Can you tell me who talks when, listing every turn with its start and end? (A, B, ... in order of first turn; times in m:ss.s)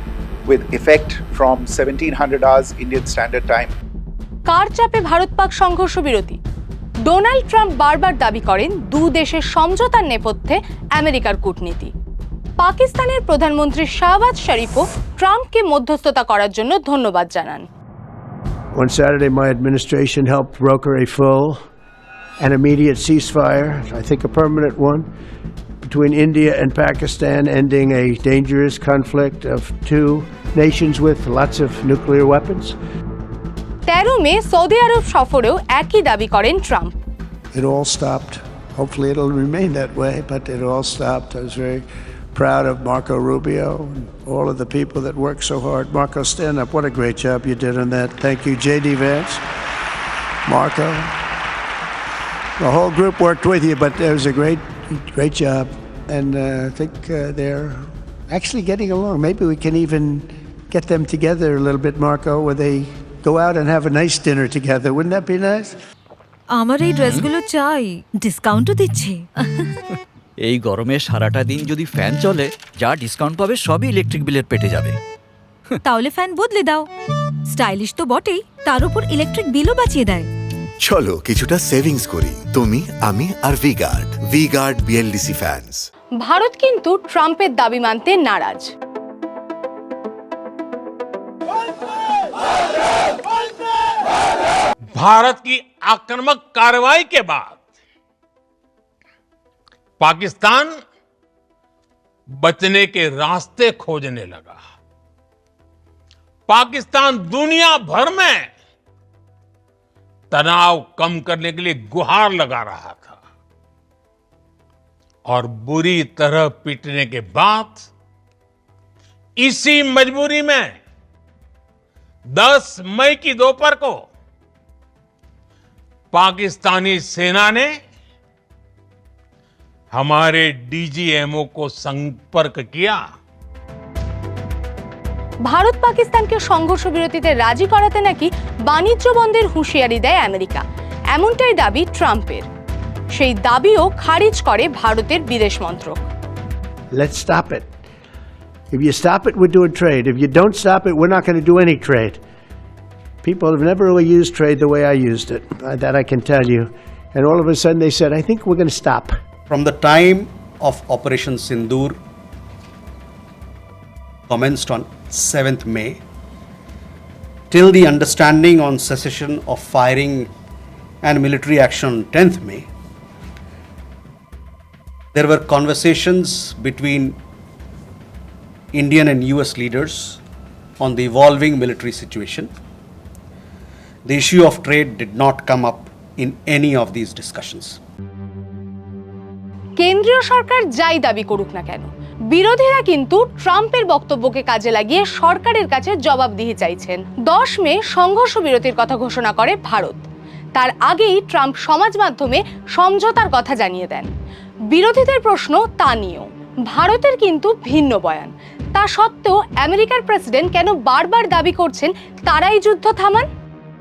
0:00.4-0:03.7 A
0:04.5-0:06.4 B
0:07.0-0:11.9 B
0:12.6-0:17.6 B
0:18.7-0:21.6 C
0:22.4-0:25.0 C
0:25.8-0:32.8 C
0:33.9-0:37.0 B
0:37.5-0:49.4 C
0:50.4-0:51.2 C
0:52.6-1:05.7 C
1:06.5-1:09.2 D
1:10.4-1:15.0 E
1:15.8-1:16.9 D
1:17.5-1:20.3 D
1:20.8-1:25.9 F
1:26.2-1:28.7 B
1:34.9-1:37.6 G
1:40.0-1:40.7 G
1:42.4-1:44.6 G
1:46.5-1:48.5 G
1:50.3-1:53.2 G
1:55.2-1:57.9 G
1:59.4-2:00.8 G
2:02.3-2:04.0 G
2:06.1-2:07.7 G
2:09.9-2:13.0 G
2:15.5-2:22.4 B
2:23.1-2:26.0 B
2:26.9-2:27.7 C
2:28.7-2:32.2 C
2:33.2-2:39.1 C
2:39.5-2:42.0 H
2:44.3-2:46.0 H
2:47.5-2:50.3 H
2:51.0-2:52.7 H
2:55.1-2:57.2 H
2:58.7-3:00.2 H
3:00.8-3:02.5 H
3:04.0-3:07.8 H
3:09.8-3:20.0 B
3:20.6-3:24.1 B
3:24.7-3:33.3 B